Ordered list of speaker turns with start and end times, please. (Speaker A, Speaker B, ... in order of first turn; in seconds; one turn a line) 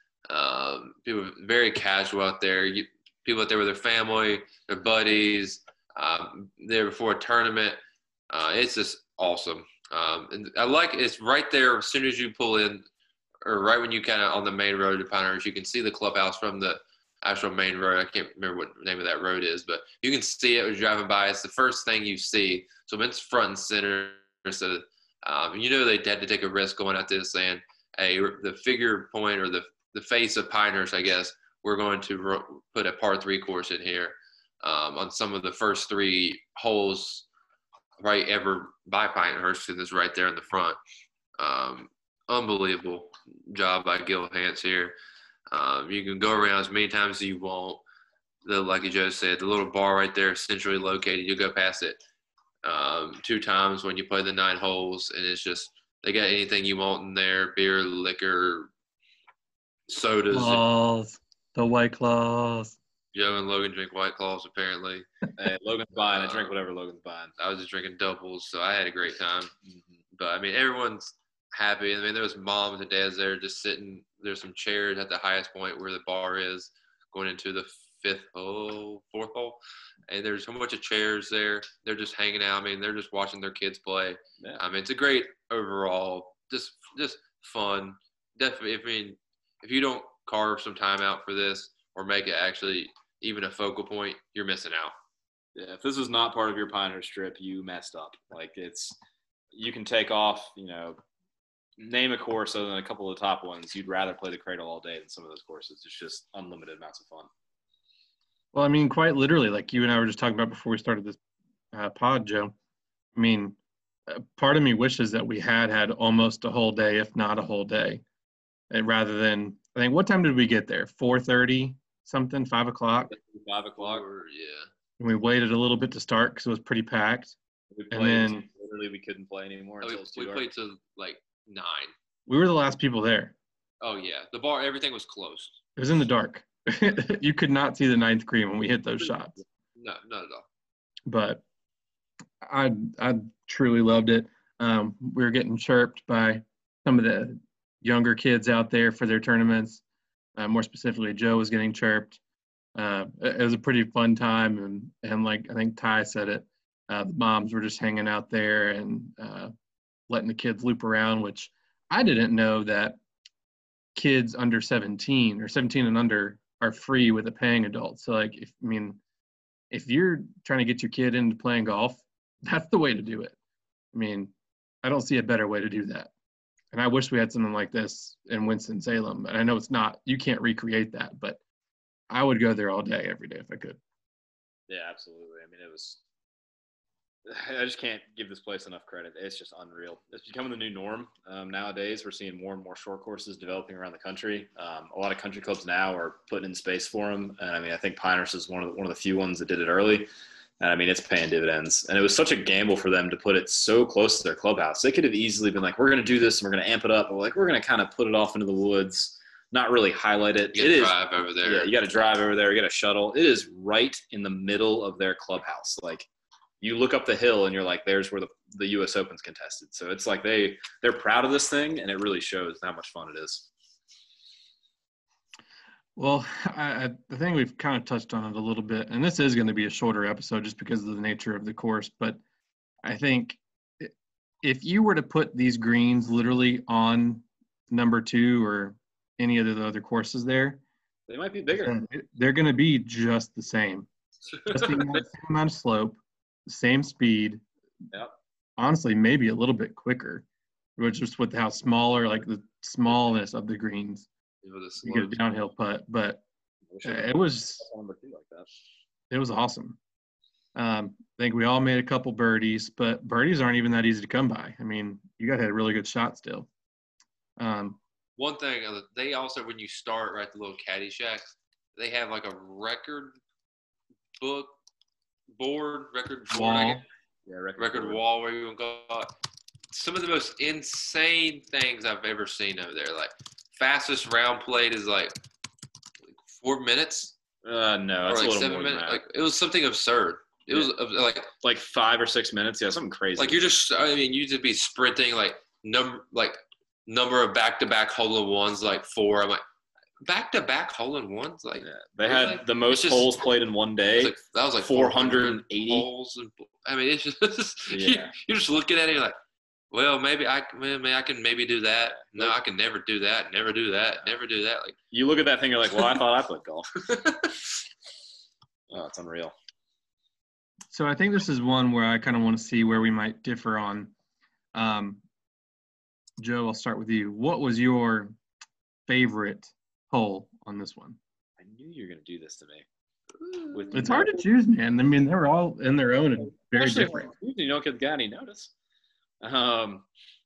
Speaker A: 0.3-7.8
Speaker A: 8.3-12.8
Speaker A: 13.4-37.2
Speaker A: 38.0-40.8
Speaker A: 41.4-44.9
Speaker A: 45.5-47.8
Speaker A: 48.4-52.0
Speaker A: 52.6-58.7
Speaker A: 59.9-60.6
Speaker B: 60.3-62.8
Speaker A: 63.1-65.1
Speaker C: 65.4-67.3
Speaker A: 66.1-66.6
Speaker A: 67.4-69.5
Speaker A: 70.1-94.9
Speaker C: 95.5-99.0
Speaker C: 99.5-101.0
Speaker C: 101.8-107.3
Speaker B: 108.5-111.2
Speaker B: 111.7-112.5
Speaker B: 113.1-118.0
Speaker B: 118.7-123.1
Speaker C: 122.9-124.0
Speaker A: 123.8-124.7
Speaker B: 125.0-127.3
Speaker C: 127.7-130.4
Speaker B: 127.9-128.4
Speaker A: 129.8-131.9
Speaker B: 132.3-133.3
Speaker A: 133.8-135.6
Speaker B: 135.8-139.3
Speaker A: 139.8-140.4
Speaker B: 141.1-141.4
Speaker B: 142.4-149.8
Speaker B: 150.3-152.2
Speaker B: 152.8-159.5
Speaker B: 160.1-163.0
Speaker B: 163.9-169.0
Speaker B: 169.7-173.3
Speaker B: 173.9-176.1
Speaker B: 176.7-181.4
Speaker B: 182.1-183.8
Speaker C: 184.7-186.0
Speaker C: 187.2-200.1
Speaker C: 200.6-216.1
Speaker A: 210.5-211.7
Speaker C: 216.6-223.5
Speaker B: 225.9-232.2
Speaker B: 232.8-240.6
Speaker C: 241.1-241.7
Speaker B: 241.6-243.9
Speaker B: 244.5-247.4
Speaker B: 248.6-250.2
Speaker B: 250.8-254.1
Speaker A: 254.4-255.2
Speaker B: 254.8-256.2
Speaker C: 256.7-258.5
Speaker B: 256.8-257.6
Speaker B: 259.1-259.8
Speaker B: 260.6-266.5
Speaker B: 267.4-267.8
Speaker A: 268.2-273.2
Speaker A: 274.2-274.5
Speaker A: 275.4-276.8
Speaker B: 276.3-276.8
Speaker C: 277.2-278.0
Speaker A: 277.6-279.1
Speaker A: 279.7-285.1
Speaker A: 286.2-287.1
Speaker C: 287.4-289.0
Speaker A: 288.1-291.3
Speaker C: 291.4-293.4
Speaker A: 293.2-299.4
Speaker A: 300.0-303.1
Speaker C: 301.6-305.9
Speaker A: 303.9-309.2
Speaker C: 307.7-308.1
Speaker A: 309.7-314.8
Speaker C: 311.9-312.3
Speaker C: 314.9-316.9
Speaker A: 316.9-317.3
Speaker C: 318.7-319.3
Speaker B: 320.7-323.9
Speaker B: 324.5-325.0
Speaker B: 326.2-328.1
Speaker B: 328.9-331.0
Speaker C: 331.4-332.6
Speaker A: 333.2-333.6
Speaker C: 333.5-334.2
Speaker B: 333.7-337.1
Speaker C: 336.5-338.5
Speaker C: 339.2-339.9